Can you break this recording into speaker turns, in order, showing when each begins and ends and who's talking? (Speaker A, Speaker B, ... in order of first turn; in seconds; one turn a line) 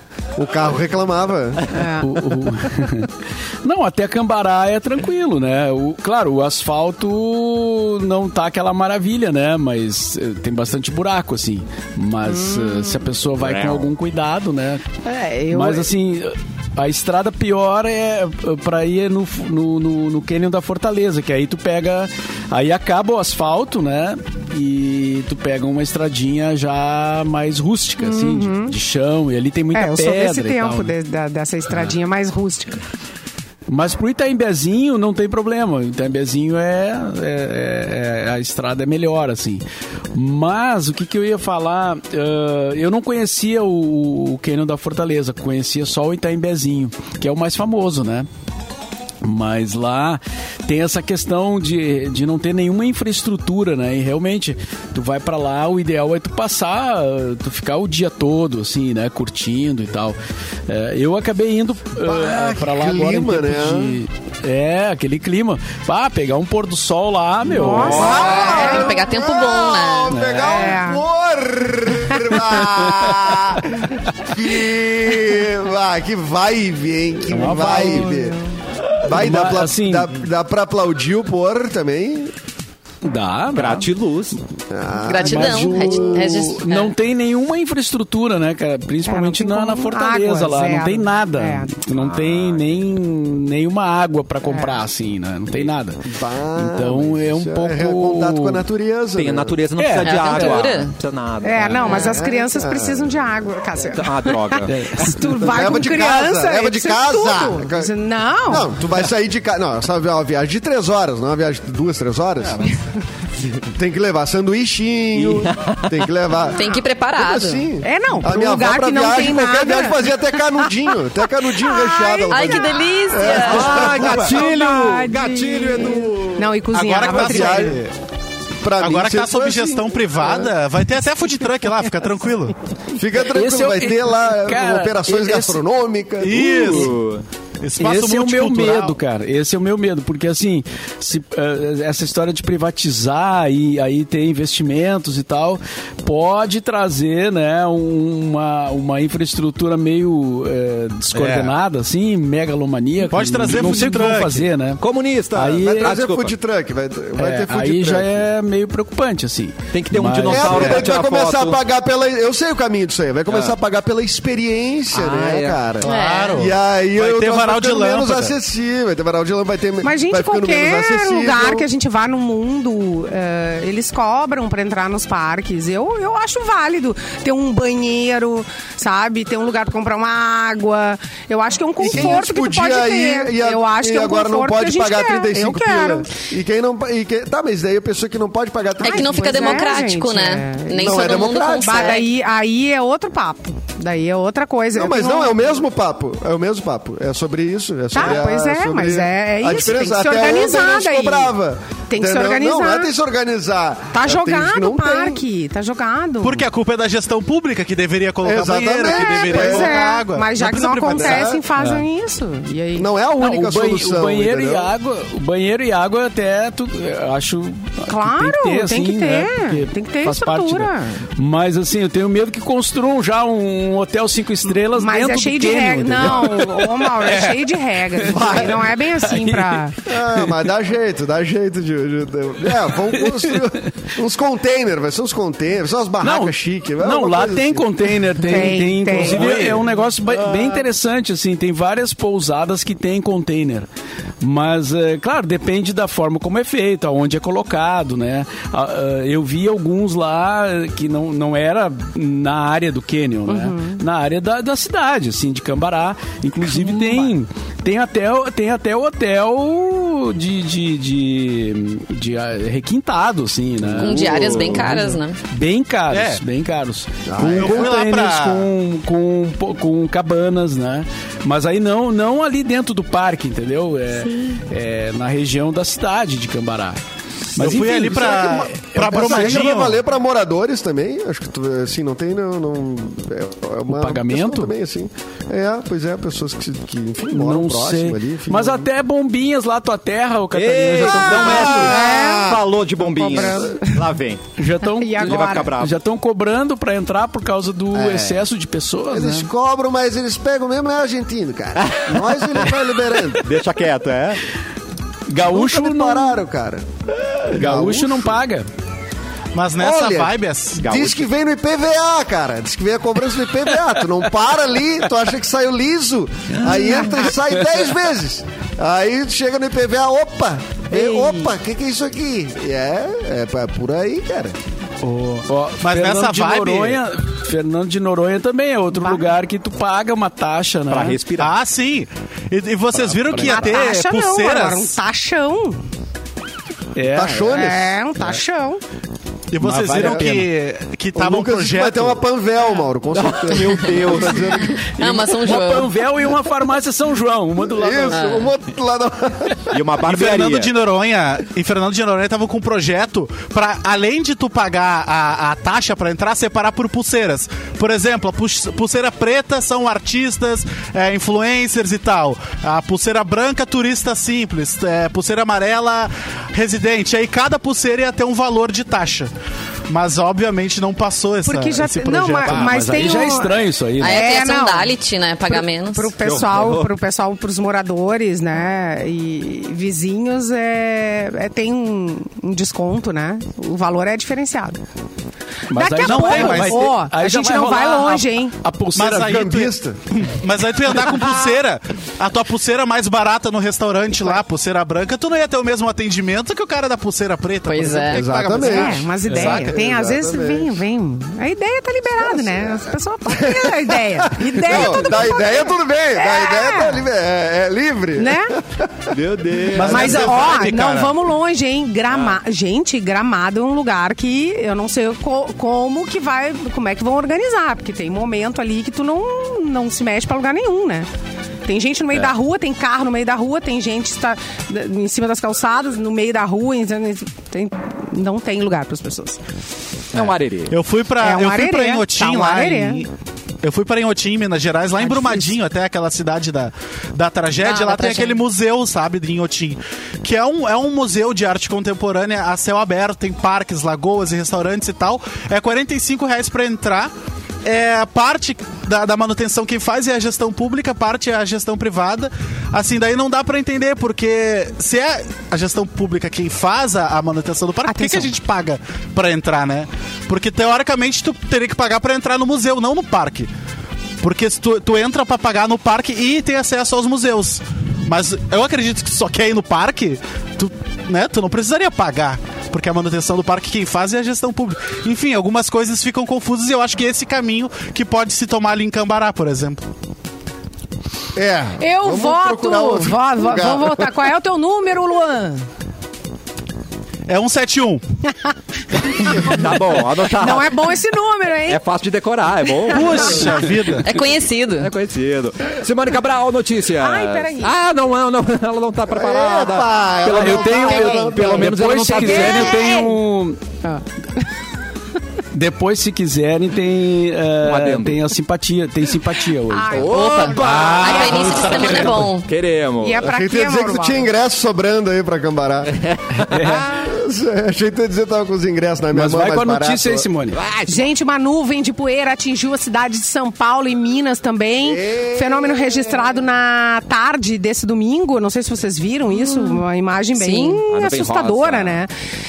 Speaker A: 0.4-1.7
Speaker B: 1.7-2.2
Speaker C: 2.0-3.1
Speaker C: 3.6-14.9
Speaker B: 12.3-13.1
Speaker D: 13.4-13.9
Speaker B: 15.0-15.9
Speaker C: 15.5-30.9
Speaker B: 28.0-28.8
Speaker B: 29.7-32.8
Speaker C: 33.7-39.6
Speaker C: 40.1-48.3
Speaker C: 49.2-60.2
Speaker C: 60.7-68.4
Speaker A: 62.0-64.0
Speaker B: 67.5-68.9
Speaker A: 67.7-78.4
Speaker E: 68.4-70.2
Speaker C: 70.1-70.6
Speaker B: 70.4-71.0
Speaker C: 72.6-73.3
Speaker C: 77.3-78.2
Speaker B: 77.7-78.4
Speaker A: 79.0-82.3
Speaker C: 79.1-80.2
Speaker C: 83.0-83.9
Speaker D: 83.5-84.4
Speaker A: 84.7-86.5
Speaker E: 85.0-86.9
Speaker C: 85.2-96.0
Speaker B: 89.1-91.7
Speaker D: 91.9-92.7
Speaker B: 94.4-94.8
Speaker A: 96.0-99.6
Speaker C: 96.5-98.6
Speaker D: 99.2-102.1
Speaker C: 99.8-100.6
Speaker E: 100.0-100.9
Speaker B: 101.4-108.7
Speaker E: 101.8-102.2
Speaker A: 101.9-103.3
Speaker D: 103.8-105.1
Speaker C: 104.7-105.3
Speaker A: 105.4-107.9
Speaker A: 108.5-112.7
Speaker A: 113.4-124.5
Speaker D: 115.2-116.1
Speaker E: 116.5-117.7
Speaker B: 117.8-120.7
Speaker B: 121.4-122.8
Speaker E: 122.3-123.8
Speaker D: 123.6-126.5
Speaker B: 123.6-127.8
Speaker F: 123.7-125.1
Speaker F: 126.7-127.9
Speaker A: 127.1-127.8
Speaker A: 128.6-130.5
Speaker F: 128.8-132.5
Speaker A: 132.9-136.9
Speaker C: 133.2-135.6
Speaker F: 136.2-136.9
Speaker D: 136.6-137.2
Speaker F: 137.6-139.0
Speaker C: 137.8-154.8
Speaker F: 151.1-151.5
Speaker F: 153.1-154.5
Speaker D: 154.8-156.4
Speaker C: 155.3-156.0
Speaker A: 155.6-158.3
Speaker C: 157.2-160.5
Speaker D: 159.7-161.6
Speaker F: 160.1-160.9
Speaker A: 160.3-171.7
Speaker D: 163.3-163.6
Speaker D: 164.9-165.6
Speaker F: 165.8-168.3
Speaker E: 165.8-166.5
Speaker B: 169.8-186.1
Speaker A: 181.8-189.6
Speaker E: 188.8-192.1
Speaker B: 188.8-195.4
Speaker A: 190.7-192.0
Speaker A: 194.7-205.2
Speaker B: 197.9-201.3
Speaker B: 201.9-202.9
Speaker B: 203.9-206.4
Speaker F: 206.2-211.4
Speaker A: 208.2-209.8
Speaker B: 208.9-212.9
Speaker A: 210.9-211.4
Speaker C: 211.6-211.8
Speaker A: 212.7-214.7
Speaker C: 213.2-227.4
Speaker B: 217.9-221.0
Speaker B: 224.7-229.8
Speaker C: 227.9-230.3
Speaker A: 228.1-228.7
Speaker A: 229.9-237.9
Speaker C: 232.9-233.4
Speaker C: 236.0-243.7
Speaker B: 238.2-239.4
Speaker F: 238.9-239.6
Speaker C: 244.2-276.8
Speaker B: 253.3-253.8
Speaker F: 256.5-257.1
Speaker A: 263.6-264.2
Speaker E: 263.8-265.2
Speaker F: 265.9-266.2
Speaker A: 267.1-267.7
Speaker F: 267.3-268.5
Speaker C: 277.3-278.4
Speaker F: 277.4-279.8
Speaker A: 277.5-288.7
Speaker C: 283.7-284.5
Speaker C: 287.1-291.7
Speaker D: 290.3-294.2
Speaker B: 291.0-293.9
Speaker A: 291.1-292.4
Speaker A: 293.1-293.4
Speaker C: 294.4-299.3
Speaker B: 294.6-295.5
Speaker D: 295.0-295.7
Speaker A: 297.7-298.2
Speaker A: 298.9-303.3
Speaker D: 301.6-302.6
Speaker D: 303.1-304.2
Speaker C: 305.1-306.2
Speaker A: 305.2-306.7
Speaker A: 307.2-308.2
Speaker C: 307.3-308.5
Speaker F: 309.3-310.6
Speaker A: 309.6-324.4
Speaker D: 310.6-311.1
Speaker D: 320.7-321.2
Speaker F: 324.8-326.8
Speaker C: 324.9-331.0
Speaker B: 328.7-329.1
Speaker D: 330.7-331.3
Speaker F: 331.2-334.7
Speaker C: 332.7-333.5
Speaker B: 333.2-335.6
Speaker C: 336.7-337.6
Speaker A: 336.9-337.8
Speaker B: 337.3-338.6
Speaker F: 339.3-342.0
Speaker C: 339.4-340.3
Speaker A: 339.7-340.0
Speaker A: 340.9-344.6
Speaker D: 342.9-344.6
Speaker C: 344.8-348.1
Speaker E: 344.8-345.7
Speaker A: 347.4-349.6
Speaker E: 347.9-348.3
Speaker D: 349.5-350.5
Speaker F: 349.8-369.1
Speaker F: 369.7-373.0
Speaker B: 371.2-374.7
Speaker C: 372.2-374.1
Speaker E: 373.8-375.9
Speaker B: 375.3-384.6
Speaker D: 376.0-376.7
Speaker C: 385.5-389.3
Speaker B: 385.5-388.3
Speaker F: 385.8-386.7
Speaker F: 388.7-398.9
Speaker A: 388.9-389.8
Speaker E: 397.4-398.1
Speaker A: 397.9-400.6
Speaker B: 398.3-406.8
Speaker C: 399.1-399.5
Speaker A: 401.9-409.8
Speaker B: 408.0-408.3
Speaker D: 408.9-410.4
Speaker F: 409.5-410.9
Speaker B: 409.6-420.9
Speaker D: 411.9-412.2
Speaker B: 421.4-429.2
Speaker D: 429.9-430.6
Speaker F: 429.9-432.9
Speaker B: 431.0-432.8
Speaker F: 433.4-446.9
Speaker B: 434.8-435.3
Speaker B: 437.4-438.2
Speaker F: 447.4-463.3
Speaker B: 457.7-458.1
Speaker F: 464.0-479.6
Speaker A: 481.1-483.9
Speaker B: 481.6-485.4
Speaker F: 487.1-487.8
Speaker B: 488.9-491.6
Speaker D: 489.2-490.7
Speaker D: 491.4-493.3
Speaker B: 492.7-493.4
Speaker F: 492.7-493.9
Speaker E: 493.7-494.7
Speaker D: 494.6-502.8
Speaker B: 496.8-497.5
Speaker A: 498.9-501.6
Speaker C: 500.0-503.4
Speaker B: 500.7-501.0
Speaker B: 501.9-503.0
Speaker C: 505.3-509.9
Speaker D: 507.4-508.1
Speaker B: 509.4-511.7
Speaker D: 509.7-513.1
Speaker E: 509.9-512.3
Speaker F: 510.4-512.2
Speaker B: 512.8-514.0
Speaker A: 513.0-515.8
Speaker D: 515.8-516.8
Speaker C: 516.1-516.7
Speaker A: 516.7-520.1
Speaker C: 518.9-520.4
Speaker D: 520.3-520.9
Speaker B: 520.7-531.9
Speaker A: 524.6-526.2
Speaker E: 529.2-529.6
Speaker E: 530.1-530.6
Speaker D: 530.7-531.8